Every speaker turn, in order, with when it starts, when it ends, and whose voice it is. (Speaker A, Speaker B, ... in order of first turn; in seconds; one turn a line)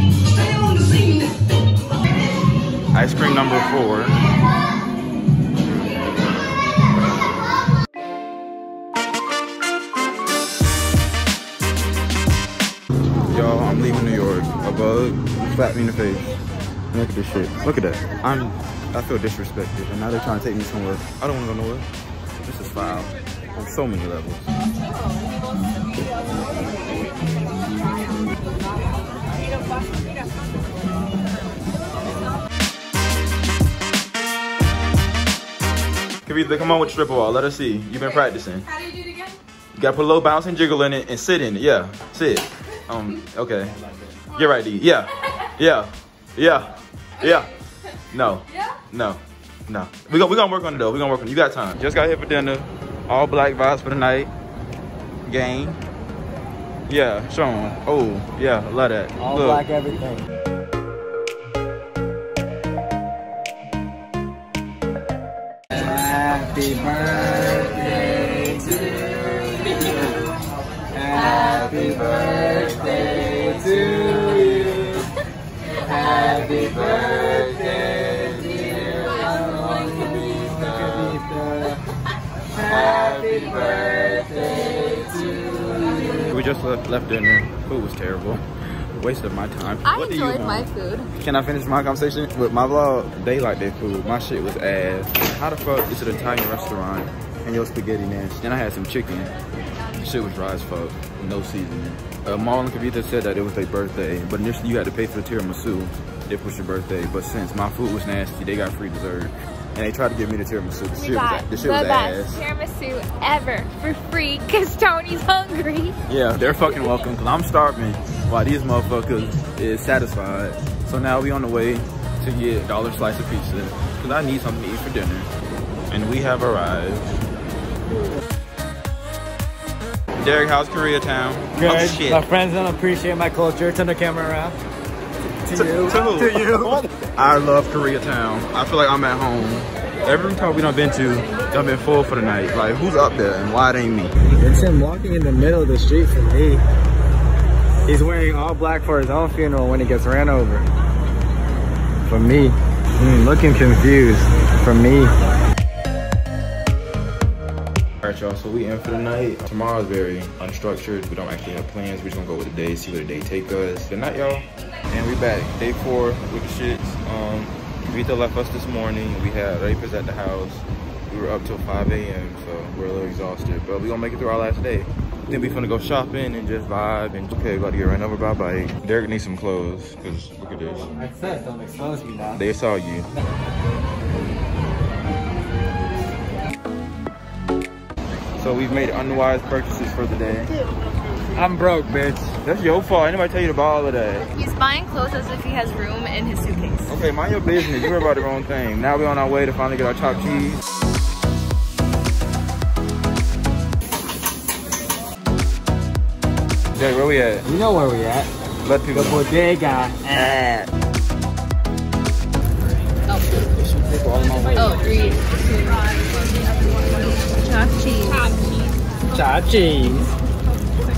Speaker A: 2.9-4.2
Speaker A: 13.3-16.3
Speaker A: 16.9-21.9
Speaker A: 22.4-24.5
Speaker B: 24.9-25.2
Speaker B: 28.5-29.0
Speaker A: 36.2-38.7
Speaker B: 38.6-39.4
Speaker A: 39.8-43.8
Speaker A: 44.3-47.5
Speaker A: 48.1-54.3
Speaker A: 55.3-55.8
Speaker A: 56.9-59.7
Speaker C: 59.2-60.3
Speaker C: 65.7-70.1
Speaker C: 70.9-75.1
Speaker C: 75.7-81.8
Speaker A: 80.8-81.1
Speaker C: 82.5-86.3
Speaker A: 86.3-88.4
Speaker A: 89.0-99.3
Speaker B: 89.8-91.1
Speaker A: 100.0-112.4
Speaker D: 110.9-117.1
Speaker A: 116.1-125.3
Speaker A: 125.9-127.2
Speaker A: 130.2-132.2
Speaker C: 131.6-134.6
Speaker C: 135.4-136.9
Speaker A: 135.5-144.2
Speaker C: 144.4-146.6
Speaker C: 147.9-150.7
Speaker C: 152.1-155.2
Speaker A: 158.0-180.9
Speaker C: 180.9-182.4
Speaker A: 182.3-183.1
Speaker A: 188.4-190.5
Speaker C: 191.3-192.4
Speaker A: 192.4-194.3
Speaker B: 194.2-196.9
Speaker A: 196.9-200.6
Speaker A: 206.7-207.5
Speaker C: 207.4-208.3
Speaker A: 208.6-209.3
Speaker C: 208.9-210.3
Speaker A: 210.1-210.7
Speaker B: 213.1-213.4
Speaker C: 213.7-214.8
Speaker A: 213.9-214.3
Speaker B: 214.6-215.9
Speaker D: 214.8-215.1
Speaker B: 216.8-218.2
Speaker D: 218.0-218.8
Speaker C: 219.1-220.1